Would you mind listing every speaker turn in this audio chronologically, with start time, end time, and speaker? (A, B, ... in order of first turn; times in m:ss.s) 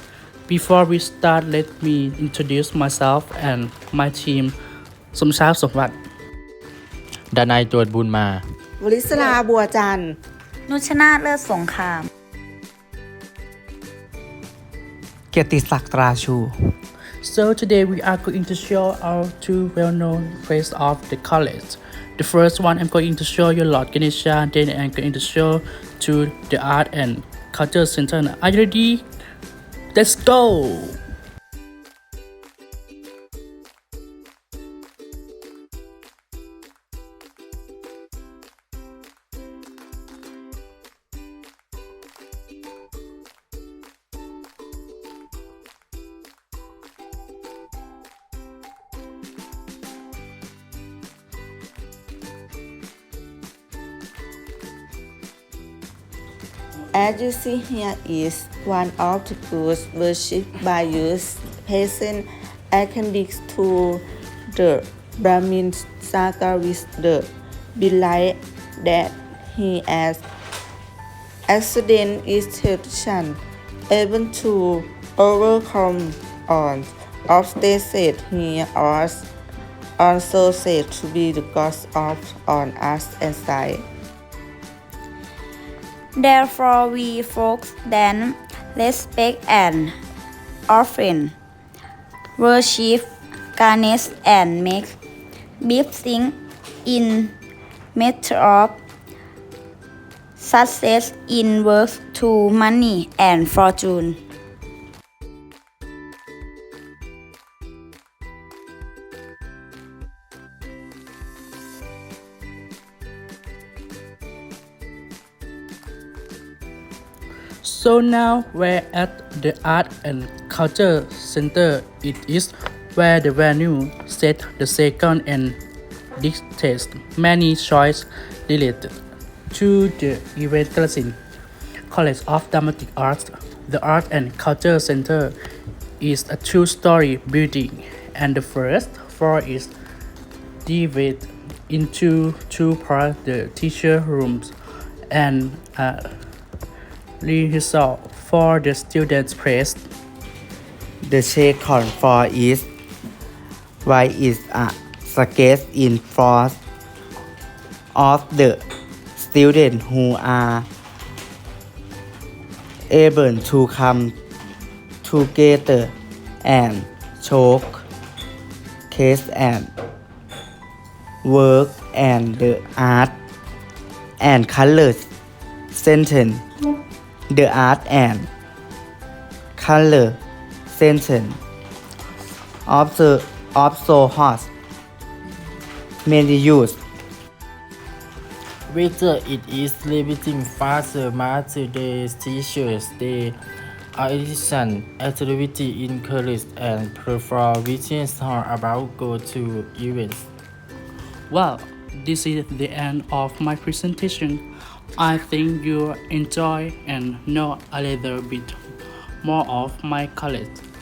0:00.5-0:04.5 A
0:05.1-0:05.9 A
0:07.3-0:08.4 B
0:08.8-0:10.2 C
0:10.7-0:12.1 D
0:15.3-0:16.5 E
0:17.2-0:29.0 A
0:29.9-0:31.0 A
0:56.9-1:04.0 C
1:04.5-1:10.2 C
1:11.5-1:19.3 C
1:20.0-1:23.8 C
1:26.2-1:29.9 D
1:30.7-1:31.3 D
1:32.4-1:35.0 D
1:35.6-1:37.3 D
1:37.9-1:38.8 D
1:40.4-1:44.2 D
1:57.6-2:05.6 A
2:06.2-2:09.0 A
2:09.5-2:11.2 A
2:11.9-2:15.3 A
2:16.0-2:19.7 A
2:20.6-2:24.5 A
2:25.1-2:26.1 A
2:27.2-2:29.8 A
2:31.0-2:32.7 E
2:33.8-2:36.6 E
2:37.9-2:38.6 E
2:39.2-2:40.7 E
2:42.9-2:44.2 E
2:45.0-2:47.8 E
2:48.9-2:49.7 E
2:51.2-2:53.2 E
2:54.2-2:55.1 E
2:55.7-2:56.4 E
2:57.3-2:58.3 E
2:59.6-3:00.2 E
3:00.7-3:01.4 E
3:02.7-3:04.5 E
3:06.0-3:06.8 E
3:08.7-3:13.4 B
3:13.9-3:20.3 B
3:21.3-3:24.4 A
3:25.0-3:28.6 A
3:29.2-3:30.6 A